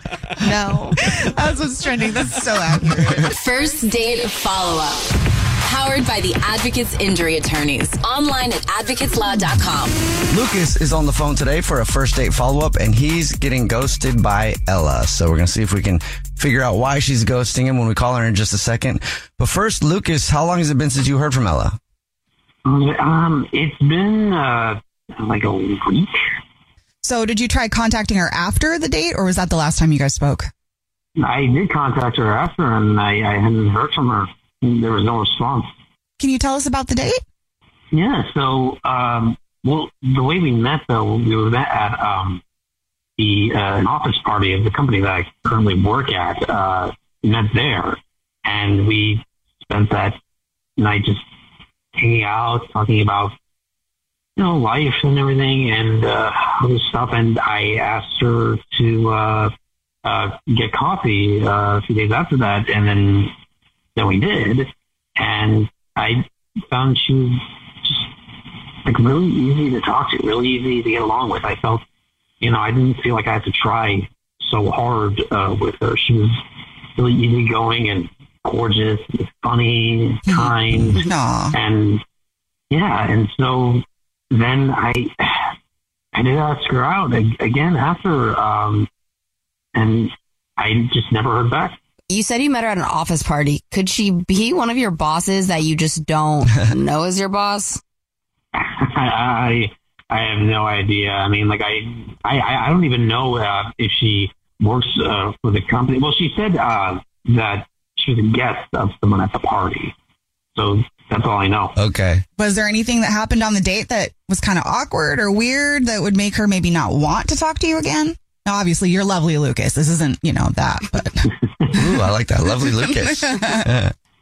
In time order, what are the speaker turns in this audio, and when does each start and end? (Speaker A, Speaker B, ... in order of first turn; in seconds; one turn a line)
Speaker A: 0.4-1.0
Speaker B: 1.0-3.3
Speaker C: 3.3-5.1
Speaker C: 5.6-9.9
Speaker D: 10.3-21.8
Speaker E: 22.6-26.1
Speaker B: 27.0-30.5
Speaker E: 31.2-35.7
Speaker B: 36.2-37.2
Speaker E: 37.9-42.4
Speaker E: 43.2-50.2
Speaker E: 50.8-51.2
Speaker E: 51.9-53.3
Speaker E: 54.4-59.5
Speaker E: 60.0-63.3
Speaker E: 64.0-68.1
Speaker E: 68.8-71.8
Speaker E: 72.4-76.4
Speaker E: 77.0-82.0
Speaker B: 80.3-81.5
Speaker E: 82.7-85.5
Speaker E: 86.1-88.9
Speaker E: 89.7-91.8
Speaker A: 92.1-97.8
Speaker E: 98.5-109.9
Speaker E: 110.5-111.7
Speaker D: 111.8-112.2
Speaker B: 112.4-121.8
Speaker D: 121.7-123.9
Speaker B: 122.8-123.6